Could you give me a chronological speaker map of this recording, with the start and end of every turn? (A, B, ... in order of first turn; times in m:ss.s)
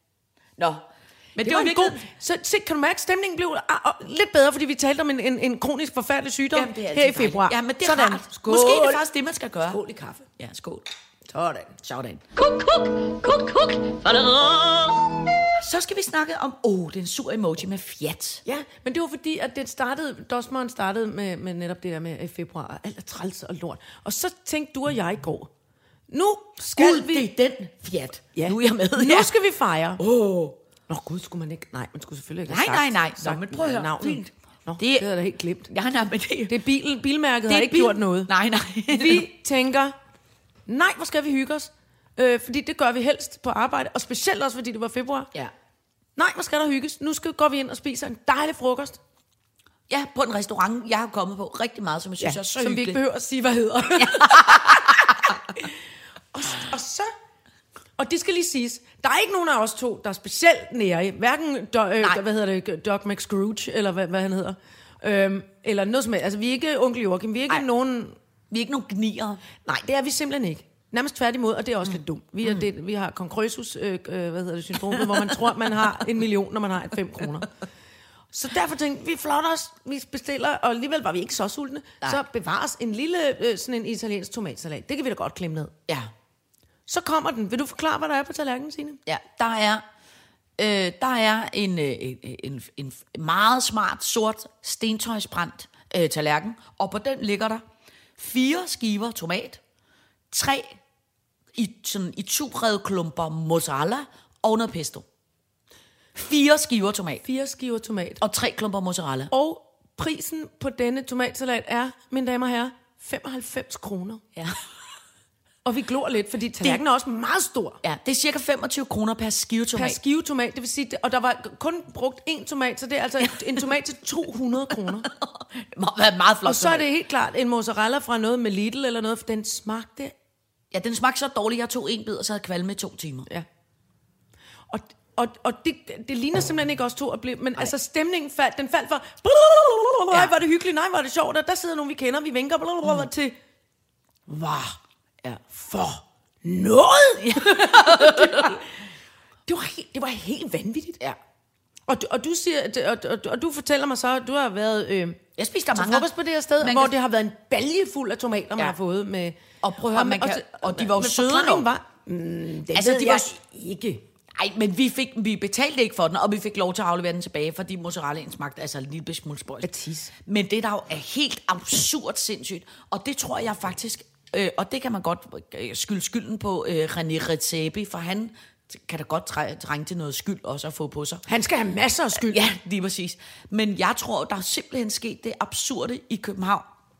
0:00.6-0:02.0 A
0:01.4-0:09.0 B
0:06.5-0:09.8 A
0:09.6-0:10.3 B
0:10.4-0:10.8 A
0:11.3-0:11.8 B
0:11.8-0:18.4 A
0:18.4-0:25.5 B
0:26.1-0:27.3 B
0:26.7-0:29.3 A
0:28.3-0:30.0 B
0:30.0-0:30.6 A
0:30.9-0:35.7 B
0:32.5-0:35.1 A
0:35.7-0:36.6 A
0:36.5-0:38.3 B
0:37.5-0:39.2 A
0:38.9-0:39.9 B
0:40.7-0:45.3 B
0:46.2-0:49.0 B
0:49.9-0:53.0 A
0:52.2-0:55.6 B
0:54.0-0:55.3 A
0:56.3-0:57.1 B
0:58.0-1:08.2 B
1:08.5-1:09.4 A
1:09.6-1:17.5 B
1:18.3-1:25.7 B
1:26.9-1:29.0 B
1:29.0-1:29.8 A
1:30.6-1:37.6 A
1:38.2-1:39.6 A
1:40.3-1:40.8 A
1:41.5-1:45.0 A
1:46.1-1:47.2 A
1:47.2-1:48.2 B
1:48.2-1:49.3 A
1:49.3-1:54.2 B
1:55.6-1:57.8 B
1:57.8-2:00.0 A
1:59.7-2:05.1 B
2:05.1-2:06.9 A
2:06.4-2:10.1 B
2:10.7-2:13.3 A
2:14.7-2:23.4 B
2:24.3-2:25.4 A
2:25.5-2:28.7 B
2:27.2-2:28.6 A
2:29.5-2:31.0 B
2:31.9-2:35.2 B
2:35.4-2:36.9 A
2:35.7-2:44.0 B
2:39.6-2:41.7 A
2:42.7-2:43.3 A
2:44.3-3:01.2 A
2:49.6-2:50.1 B
3:01.3-3:02.4 B
3:02.1-3:06.7 A